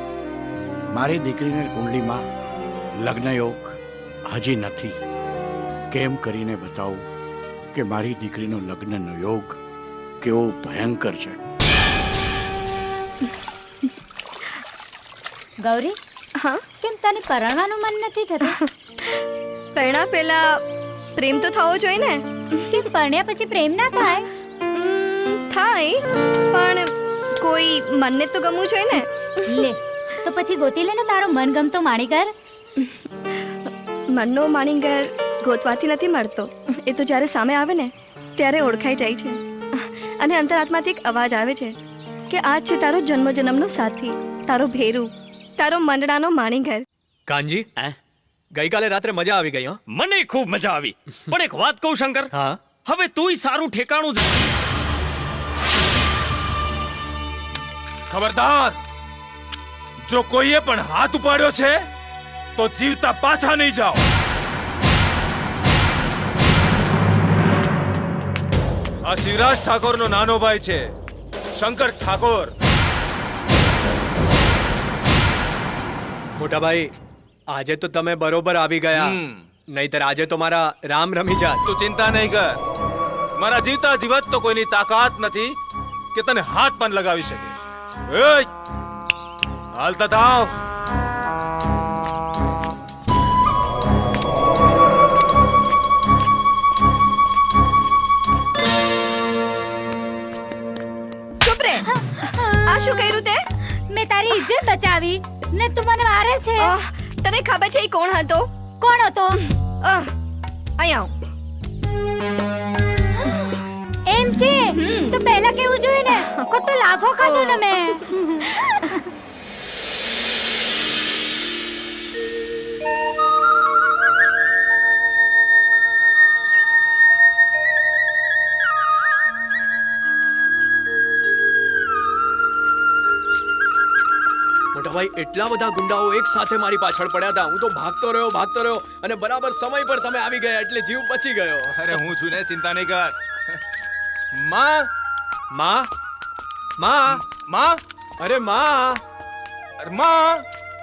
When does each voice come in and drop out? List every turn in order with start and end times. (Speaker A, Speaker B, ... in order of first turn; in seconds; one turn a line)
Speaker A: 0.9-2.2
Speaker A: 3.0-5.0
Speaker A: 5.9-7.0
Speaker A: 7.7-9.6
Speaker A: 10.2-11.4
Speaker B: 15.6-16.0
Speaker C: 16.4-16.6
Speaker B: 16.8-18.6
Speaker C: 19.8-20.6
Speaker C: 21.2-22.4
Speaker B: 22.7-24.3
Speaker C: 24.7-29.6
Speaker B: 29.5-32.3
Speaker C: 34.1-41.8
Speaker C: 42.3-46.9
Speaker D: 47.3-47.7
Speaker D: 48.5-49.8
Speaker E: 49.9-52.3
Speaker D: 52.3-52.6
Speaker E: 52.8-54.2
Speaker F: 58.1-58.8
Speaker F: 60.0-61.8
Speaker F: 62.6-64.0
Speaker F: 69.0-70.9
Speaker F: 71.5-72.5
Speaker D: 76.4-76.9
Speaker D: 77.5-79.2
Speaker F: 79.0-79.4
Speaker D: 79.7-81.6
Speaker F: 81.6-82.6
Speaker F: 83.4-85.5
Speaker F: 86.1-87.5
Speaker F: 88.1-88.5
Speaker F: 89.8-90.5
Speaker C: 101.4-101.9
Speaker B: 101.9-103.0
Speaker C: 102.7-103.4
Speaker B: 103.9-106.7
Speaker C: 106.6-108.5
Speaker B: 108.8-109.4
Speaker C: 109.3-110.1
Speaker C: 110.8-111.1
Speaker B: 114.0-118.9
Speaker C: 114.7-115.2
Speaker C: 117.2-117.7
Speaker D: 134.7-141.8
Speaker F: 141.7-143.2
Speaker F: 144.4-144.8
Speaker D: 145.5-145.9
Speaker D: 146.8-147.2
Speaker F: 147.1-147.8
Speaker D: 148.2-149.0
Speaker F: 149.8-150.4